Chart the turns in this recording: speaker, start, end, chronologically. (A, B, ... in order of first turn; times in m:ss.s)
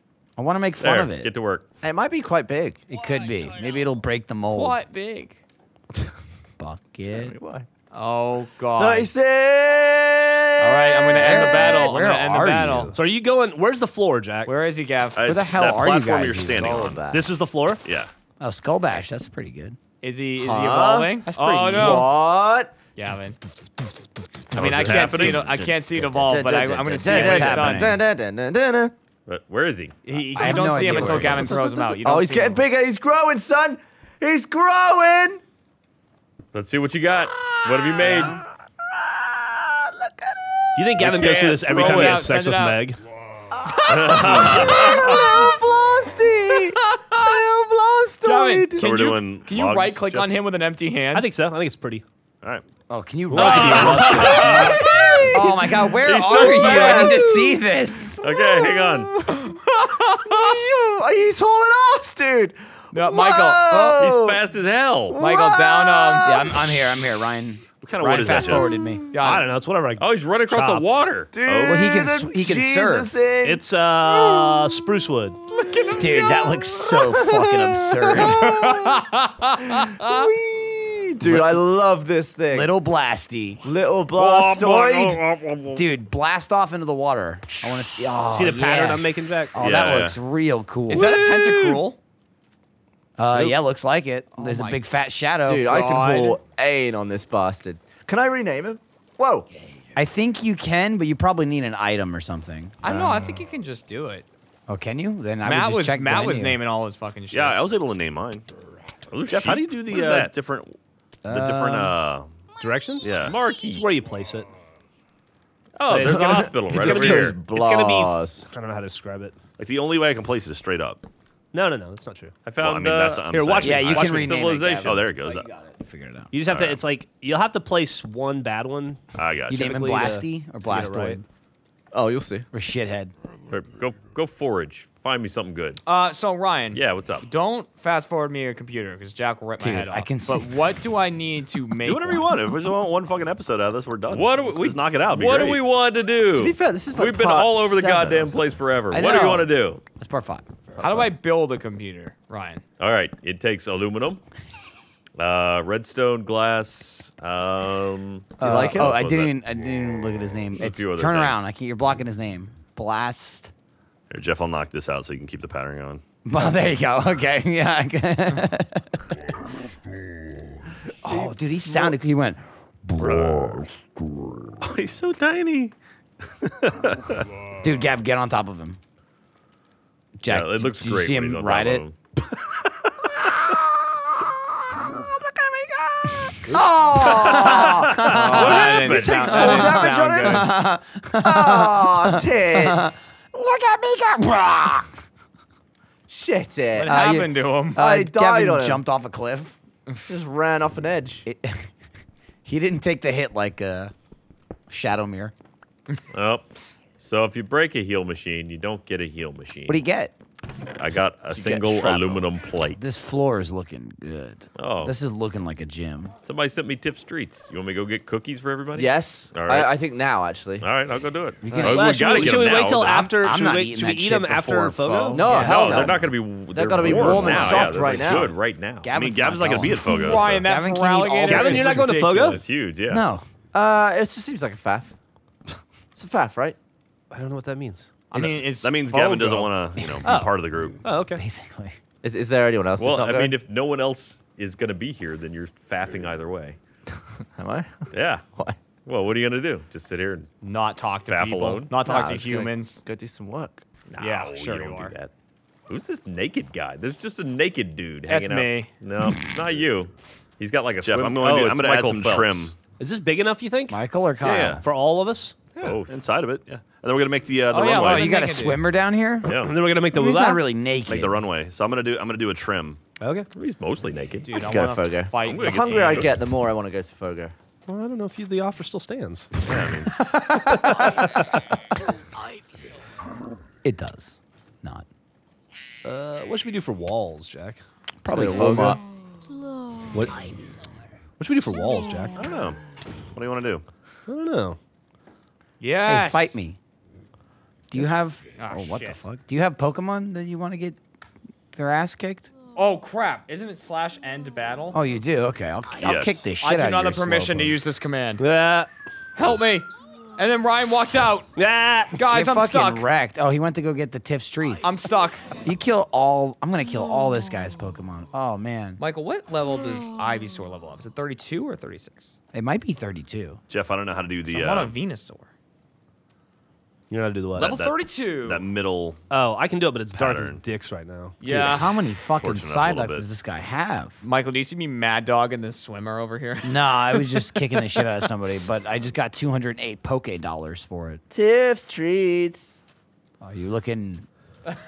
0:00.4-0:01.3 A
0:00.8-0:01.6 B
0:01.8-0:02.8 C
0:02.9-0:04.8 A
0:04.5-0:05.4 D
0:06.6-0:07.3 A
0:07.1-0:07.7 C
0:07.9-0:09.1 D
0:08.8-0:12.1 C
0:10.6-0:13.0 D
0:11.1-0:12.9 A
0:12.9-0:14.6 E
0:14.4-0:15.6 D
0:15.1-0:17.1 F
0:15.2-0:16.7 A
0:15.3-0:17.2 C
0:17.1-0:17.8 E
0:17.8-0:18.1 F
0:18.4-0:19.8 A
0:20.0-0:22.2 D
0:20.4-0:22.7 C
0:21.2-0:22.1 A
0:23.0-0:23.4 D
0:24.5-0:27.9 D
0:24.6-0:25.5 F
0:24.6-0:26.0 B
0:26.1-0:28.9 C
0:26.7-0:28.0 A
0:29.3-0:30.1 B
0:30.0-0:30.9 E
0:30.3-0:32.6 D
0:30.4-0:31.9 A
0:31.7-0:35.4 C
0:36.5-0:38.4 B
0:37.3-0:41.0 C
0:40.7-0:43.0 E
0:41.0-0:42.3 B
0:41.6-0:42.8 D
0:43.5-0:48.9 C
0:43.8-0:45.4 B
0:46.9-0:47.3 D
0:48.2-0:51.3 D
0:48.7-0:50.3 F
0:51.1-0:52.0 E
0:52.9-0:58.2 A
0:53.3-0:54.5 E
0:53.3-0:54.1 F
0:53.3-0:54.8 B
0:53.6-0:54.0 D
0:53.7-0:57.6 C
0:55.3-0:57.3 D
0:58.2-1:04.4 C
0:58.2-0:59.2 B
0:59.5-1:00.6 D
1:02.9-1:04.0 D
1:04.0-1:05.2 B
1:05.1-1:06.9 C
1:05.2-1:06.5 D
1:06.2-1:09.1 A
1:07.8-1:08.7 F
1:09.1-1:09.5 D
1:09.2-1:10.9 E
1:10.0-1:11.8 B
1:11.3-1:14.8 C
1:11.6-1:13.1 A
1:13.4-1:15.4 E
1:15.6-1:16.2 D
1:15.6-1:17.4 C
1:16.0-1:18.5 A
1:18.1-1:22.7 C
1:18.1-1:20.3 D
1:21.2-1:21.6 A
1:22.5-1:23.6 A
1:23.6-1:25.2 C
1:24.1-1:25.9 B
1:25.7-1:31.2 A
1:28.3-1:29.6 E
1:29.6-1:30.2 F
1:30.9-1:32.0 D
1:30.9-1:31.8 F
1:33.2-1:35.6 A
1:34.3-1:34.8 D
1:35.4-1:39.5 C
1:35.6-1:36.4 D
1:39.9-1:43.2 A
1:42.8-1:44.3 D
1:44.7-1:46.6 A
1:45.4-1:47.6 D
1:47.3-1:48.4 F
1:49.1-1:50.3 B
1:49.3-1:50.8 F
1:51.2-1:52.0 A
1:51.3-1:52.4 F
1:52.6-1:54.5 E
1:53.0-1:53.4 F
1:53.2-1:53.8 B
1:55.7-1:57.4 B
1:55.9-1:59.4 E
1:56.0-1:58.5 C
1:59.6-2:01.0 F
2:01.5-2:02.4 E
2:02.4-2:05.1 B
2:02.6-2:05.5 F
2:03.3-2:04.2 E
2:03.6-2:06.3 A
2:06.3-2:09.0 E
2:06.5-2:06.8 F
2:09.1-2:09.7 F
2:09.5-2:11.2 A
2:09.6-2:11.2 E
2:11.9-2:12.5 C
2:12.5-2:13.1 A
2:13.5-2:15.8 B
2:15.8-2:22.4 D
2:16.7-2:17.3 B
2:19.6-2:20.5 A
2:21.8-2:25.6 F
2:24.1-2:29.8 B
2:26.3-2:28.4 C
2:28.9-2:30.4 A
2:30.8-2:32.6 D
2:32.8-2:34.2 B
2:35.2-2:39.4 B
2:38.4-2:43.5 A
2:38.4-2:39.1 C
2:40.6-2:41.5 B
2:44.1-2:46.0 F
2:46.2-2:49.0 A
2:51.0-2:54.6 A
2:51.1-2:51.9 C
2:53.0-2:53.3 F
2:54.6-2:55.7 F
2:56.4-2:57.2 F
2:57.6-2:58.8 A
3:00.2-3:01.8 A
3:00.2-3:01.9 B
3:05.3-3:05.9 C
3:06.1-3:08.7 A
3:06.5-3:10.6 C
3:07.0-3:09.4 B
3:07.0-3:10.5 D
3:09.2-3:14.9 A
3:11.2-3:13.0 C
3:16.1-3:17.1 C
3:16.7-3:17.8 D
3:16.8-3:19.6 A
3:17.8-3:18.8 C
3:20.0-3:21.2 C
3:21.2-3:21.7 A
3:22.4-3:23.9 A
3:24.7-3:25.3 A
3:26.1-3:26.4 B
3:27.0-3:29.8 B
3:29.7-3:30.1 A
3:30.8-3:32.8 B
3:31.3-3:32.2 C
3:32.8-3:36.1 A
3:34.6-3:34.9 B
3:36.2-3:39.7 B
3:38.8-3:40.7 C
3:40.6-3:42.9 B
3:41.4-3:46.0 A
3:41.6-3:45.9 E
3:45.1-3:48.3 C
3:45.4-3:48.9 B
3:46.8-3:48.2 F
3:47.2-3:47.7 A
3:48.8-3:52.3 A
3:48.9-3:50.4 F
3:49.8-3:52.5 D
3:51.2-3:52.4 E
3:52.3-3:53.0 B
3:52.9-3:53.2 A
3:53.5-3:54.9 C
3:56.0-3:56.6 C
3:57.1-3:58.0 E
3:58.1-3:59.6 D
3:58.1-4:00.8 F
4:00.0-4:01.2 E
4:01.2-4:01.8 A
4:02.0-4:03.3 C
4:02.8-4:06.6 B
4:07.4-4:08.6 C
4:07.9-4:08.2 B
4:08.8-4:10.3 B
4:10.4-4:12.8 D
4:11.1-4:11.7 B
4:11.8-4:13.6 C
4:13.9-4:15.1 B
4:14.0-4:14.9 D
4:15.7-4:22.5 B
4:18.1-4:18.7 D
4:20.8-4:22.5 F
4:22.8-4:23.8 E
4:23.7-4:24.6 A
4:24.2-4:24.6 F
4:24.6-4:25.4 E
4:25.5-4:28.3 F
4:25.6-4:26.0 B
4:27.5-4:28.6 D
4:27.5-4:29.3 A
4:29.2-4:29.6 B
4:29.2-4:30.4 E
4:29.9-4:31.2 A
4:30.9-4:32.8 F
4:33.0-4:33.3 E
4:33.3-4:34.5 B
4:34.2-4:36.1 D
4:34.3-4:37.3 C
4:35.2-4:36.2 B
4:37.7-4:39.4 E
4:39.4-4:40.0 F
4:40.4-4:41.2 E
4:43.6-4:44.8 A
4:45.8-4:47.6 E
4:48.0-4:48.8 A
4:48.1-4:48.8 C
4:48.2-4:48.7 E
4:49.9-4:50.3 E
4:51.2-4:52.2 E
4:52.2-4:52.6 F
4:53.1-4:53.6 F
4:54.1-4:54.6 E
4:55.6-4:56.4 D
4:55.8-4:56.6 A
4:57.7-5:00.8 A
4:57.7-4:59.0 D
5:01.5-5:02.3 A
5:02.6-5:04.8 D
5:04.7-5:07.6 A
5:05.8-5:06.3 F
5:06.4-5:08.2 D
5:08.2-5:08.7 E
5:09.2-5:11.3 D
5:11.4-5:12.0 E
5:11.9-5:12.9 D
5:12.1-5:14.8 A
5:14.6-5:15.3 D
5:15.3-5:18.8 A
5:18.8-5:22.1 D
5:22.3-5:23.4 A
5:23.5-5:24.7 F
5:24.2-5:25.3 D
5:26.9-5:27.6 E
5:27.4-5:28.4 D
5:27.4-5:29.0 F
5:29.1-5:31.2 E
5:29.9-5:30.4 F
5:31.2-5:31.7 D
5:31.2-5:34.0 A
5:31.5-5:33.0 F
5:34.0-5:37.0 D
5:36.4-5:41.0 A
5:41.1-5:42.6 C
5:43.2-5:44.1 A